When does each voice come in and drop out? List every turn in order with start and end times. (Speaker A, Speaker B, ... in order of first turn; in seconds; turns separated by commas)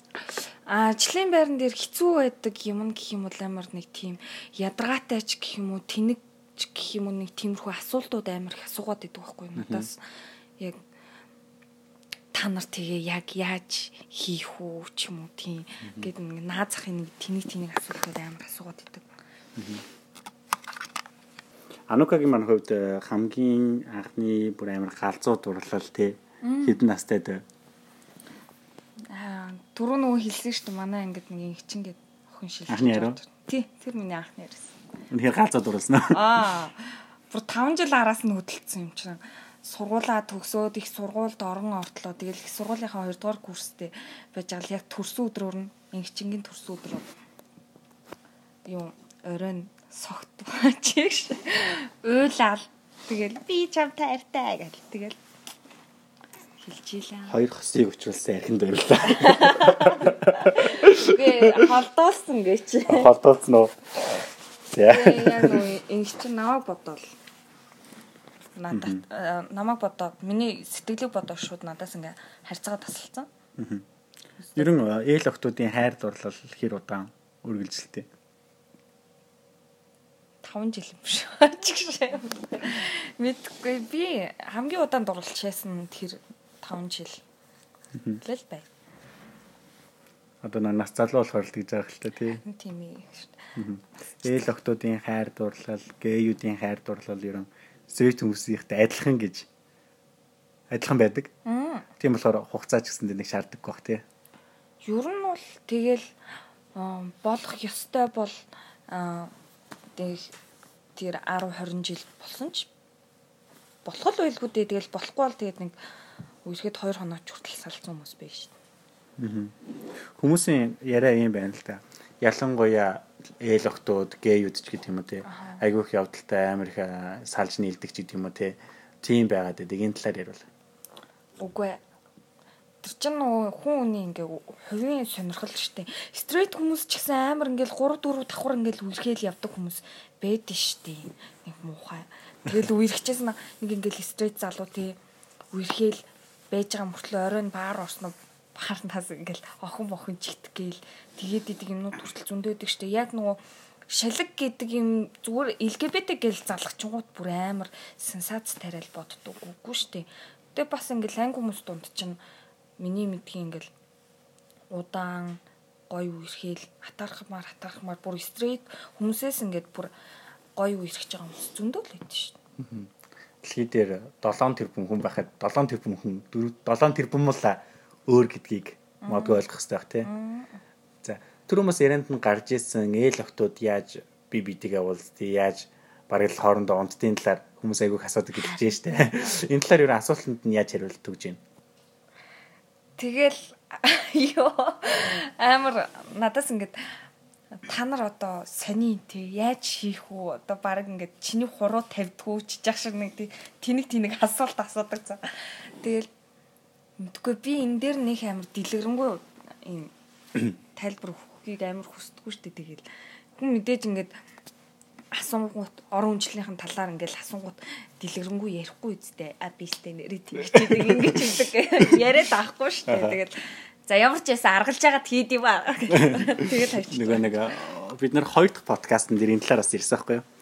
Speaker A: 0.2-10.0, Speaker B: 9.6-9.9, Speaker A: 12.3-19.1, Speaker B: 15.8-16.1, Speaker B: 19.6-19.8, Speaker B: 21.9-27.4, Speaker A: 26.4-26.8, Speaker A: 29.1-34.7, Speaker B: 32.7-33.2, Speaker B: 35.1-36.4, Speaker A: 36.1-47.1, Speaker A: 48.6-55.2, Speaker A: 56.6-57.4, Speaker B: 57.3-61.6, Speaker A: 59.1-63.1, Speaker B: 62.9-63.8, Speaker B: 64.7-65.6, Speaker A: 64.8-67.0, Speaker A: 68.5-73.3, Speaker B: 68.7-69.0, Speaker B: 73.6-73.8, Speaker A: 74.5-74.7, Speaker B: 74.5-78.1, Speaker A: 80.4-87.2, Speaker A: 88.2-88.7, Speaker B: 90.4-92.4, Speaker A: 92.3-93.4, Speaker B: 93.5-99.5, Speaker B: 100.7-101.3, Speaker A: 101.4-101.9, Speaker B: 102.0-104.0, Speaker A: 104.8-106.0, Speaker A: 106.7-109.3, Speaker A: 110.0-110.3, Speaker A: 110.9-112.7, Speaker A: 113.8-115.8, Speaker A: 116.4-118.5, Speaker B: 119.2-119.5, Speaker B: 120.1-130.4, Speaker A: 125.2-125.6, Speaker A: 131.4-131.8, Speaker A: 132.8-145.0, Speaker A: 145.5-162.2, Speaker A: 162.8-163.7, Speaker A: 164.7-169.9, Speaker A: 170.5-172.4, Speaker B: 172.6-172.9, Speaker B: 173.4-180.1, Speaker A: 179.0-179.4, Speaker A: 180.0-180.6, Speaker B: 181.0-191.4, Speaker A: 193.0-197.0, Speaker A: 197.5-206.1, Speaker A: 207.0-212.8, Speaker A: 213.4-214.1, Speaker A: 215.1-227.5, Speaker B: 222.9-223.2, Speaker B: 225.9-230.2